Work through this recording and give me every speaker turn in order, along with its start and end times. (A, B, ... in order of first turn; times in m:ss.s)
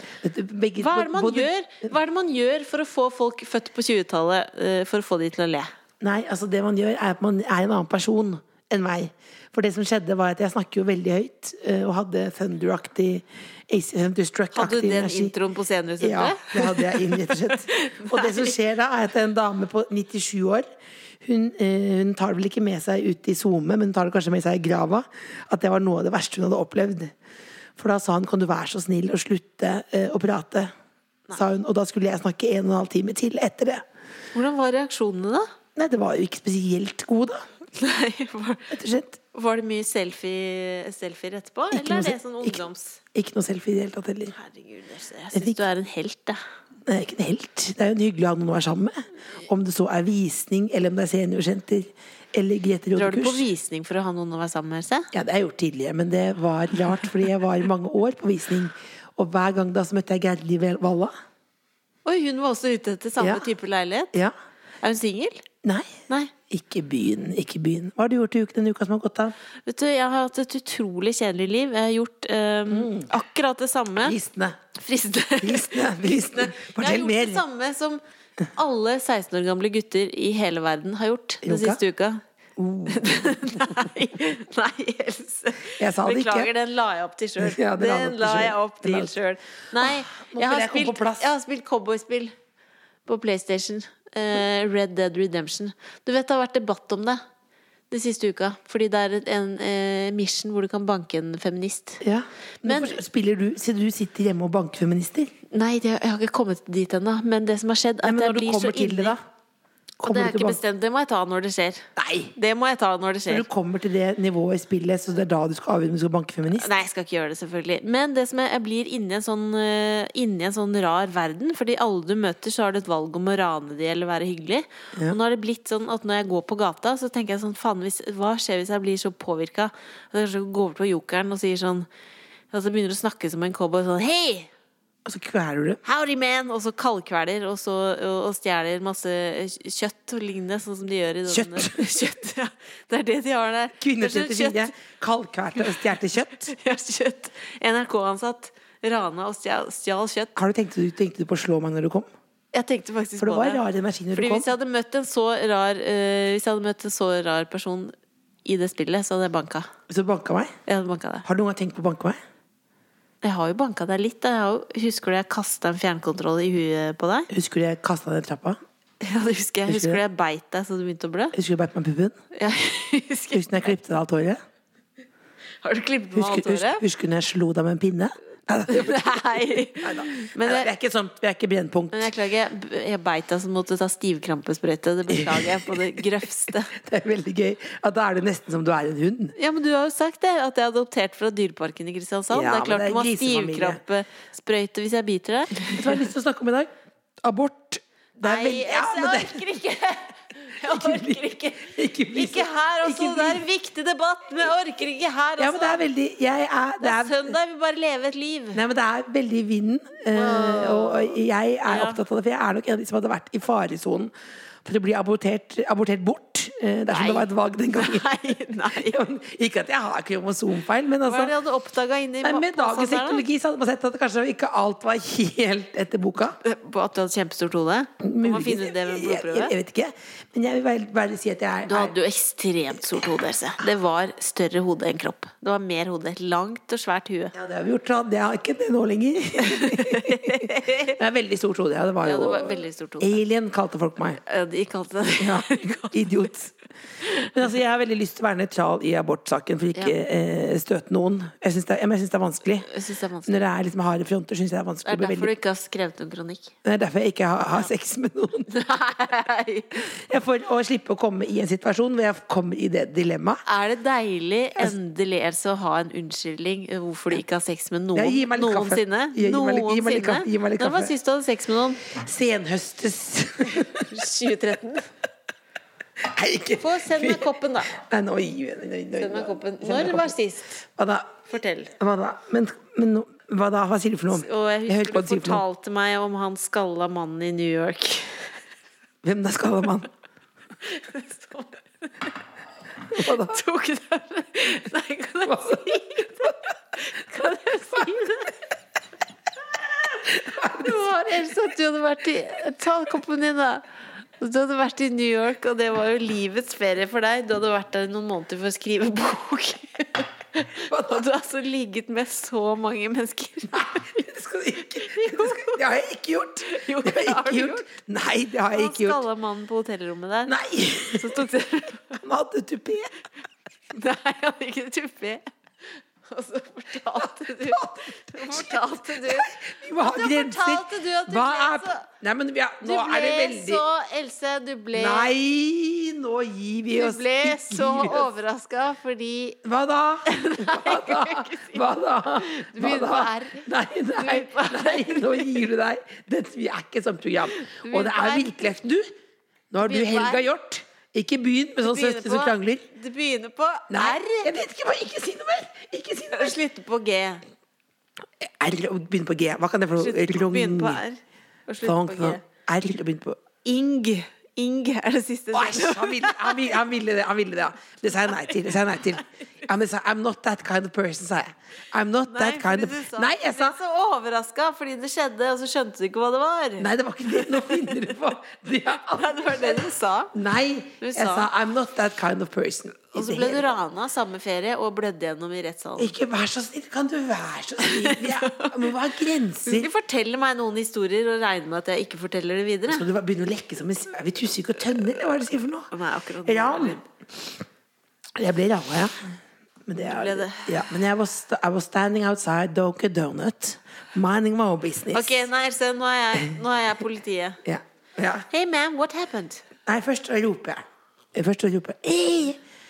0:00.2-0:01.5 A
0:00.8-0:05.7 B
0:06.0-0:15.3 A
0:14.5-0:18.5 B
0:16.0-0:20.7 A
0:21.2-0:27.1 A
0:27.8-0:30.7 A
0:31.3-0:33.8 A
0:34.3-0:35.5 B
0:35.8-0:37.5 A
0:37.8-0:38.8 B
0:38.7-0:39.2 A
0:39.3-0:43.0 B
0:41.7-0:42.6 A
0:43.1-0:44.4 A
0:44.3-0:46.4 B
0:45.3-0:45.6 A
0:46.9-0:53.4 A
0:53.0-0:55.1 B
0:55.1-1:01.1 A
1:02.0-1:04.1 B
1:03.2-1:03.5 A
1:04.8-1:05.4 B
1:05.6-1:09.4 A
1:09.7-1:14.2 B
1:12.7-1:13.1 A
1:14.0-1:14.6 A
1:14.8-1:18.0 B
1:15.4-1:17.4 A
1:18.5-1:22.2 B
1:21.4-1:21.8 A
1:22.6-1:23.9 A
1:22.9-1:32.3 B
1:25.8-1:26.5 A
1:27.4-1:29.1 A
1:29.8-1:31.2 A
1:33.1-1:37.2 B
1:37.9-1:42.0 B
1:42.0-1:45.3 A
1:42.6-1:43.0 B
1:45.5-1:49.2 B
1:48.0-1:49.2 A
1:50.0-1:50.6 A
1:50.0-1:53.5 B
1:52.0-1:52.3 A
1:53.3-1:56.7 A
1:56.5-2:11.9 B
2:12.5-2:14.5 B
2:15.1-2:15.8 A
2:15.8-2:24.7 B
2:21.3-2:21.8 A
2:23.8-2:26.5 A
2:26.5-2:30.4 B
2:30.4-2:32.1 A
2:32.5-2:33.6 B
2:33.2-2:34.5 A
2:34.2-2:39.7 B
2:39.9-2:40.5 A
2:40.7-2:41.2 B
2:41.2-2:42.2 A
2:43.2-2:47.3 B
2:47.3-2:48.6 A
2:49.0-2:51.4 B
2:49.7-2:50.0 A
2:51.3-2:52.2 A
2:52.3-2:53.7 B
2:53.3-2:54.4 A
2:55.6-2:56.8 B
2:56.2-3:02.1 A
2:58.7-3:00.7 B
3:01.9-3:06.7 B
3:05.1-3:05.9 A
3:06.7-3:09.4 A
3:09.4-3:16.0 B
3:12.3-3:13.8 A
3:15.6-3:16.7 A
3:17.2-3:19.4 A
3:18.2-3:25.8 B
3:20.6-3:23.4 A
3:25.4-3:27.4 A
3:26.8-3:28.6 B
3:28.6-3:34.1 A
3:30.1-3:32.0 B
3:34.6-3:41.3 A
3:36.9-3:39.1 B
3:41.0-3:43.2 B
3:42.2-3:46.4 A
3:46.4-3:49.5 B
3:48.0-3:52.0 A
3:51.6-3:57.3 B
3:57.3-4:04.2 A
3:59.4-4:01.0 B
4:02.0-4:03.2 B
4:04.2-4:06.0 B
4:05.2-4:06.5 A
4:07.0-4:07.3 B
4:07.2-4:12.7 A
4:12.6-4:13.5 B
4:13.3-4:15.3 A
4:14.9-4:16.6 B
4:16.6-4:18.5 A
4:18.5-4:20.0 B
4:19.9-4:23.4 A
4:23.5-4:31.8 B
4:28.0-4:30.9 A
4:31.9-4:33.9 A
4:33.8-4:34.9 B
4:36.0-4:41.2 A
4:36.6-4:37.8 B
4:39.0-4:40.6 B
4:41.3-4:41.7 B
4:41.8-4:45.4 A
4:44.1-4:48.3 B
4:49.0-4:49.9 A
4:50.6-4:52.1 B
4:52.9-4:58.4 B
4:52.9-4:53.4 A
4:55.3-4:56.4 A
5:00.0-5:00.9 A
5:00.5-5:03.6 B
5:04.2-5:14.0 B
5:10.7-5:11.0 A
5:13.5-5:19.0 A
5:14.7-5:15.6 B
5:16.5-5:17.7 B
5:18.5-5:22.0 B
5:20.3-5:21.2 A
5:21.9-5:22.9 A
5:23.7-5:31.9 B
5:27.4-5:33.6 A
5:32.6-5:35.1 B
5:34.7-5:38.1 A
5:36.7-5:39.4 B
5:39.4-5:48.9 A
5:40.1-5:45.4 B
5:47.3-5:48.4 B
5:49.5-5:52.6 A
5:49.6-5:50.2 B
5:51.6-5:54.3 B
5:53.7-5:56.4 A
5:56.1-5:57.2 B
5:58.2-6:00.8 A
5:59.8-6:02.2 B
6:01.6-6:03.2 A
6:03.4-6:06.6 B
6:05.3-6:13.6 A
6:08.1-6:09.0 B
6:12.1-6:17.9 B
6:16.6-6:23.5 A
6:18.9-6:20.2 B
6:20.8-6:21.3 B
6:22.9-6:25.9 B
6:25.8-6:29.7 A
6:27.6-6:28.7 B
6:29.4-6:32.8 B
6:32.7-6:35.7 A
6:35.7-6:36.8 B
6:36.2-6:36.8 A
6:38.2-6:39.0 A
6:39.7-6:45.1 A
6:39.8-6:40.6 B
6:44.9-6:47.4 B
6:47.4-6:48.3 A
6:48.3-6:49.4 B
6:49.6-6:52.4 A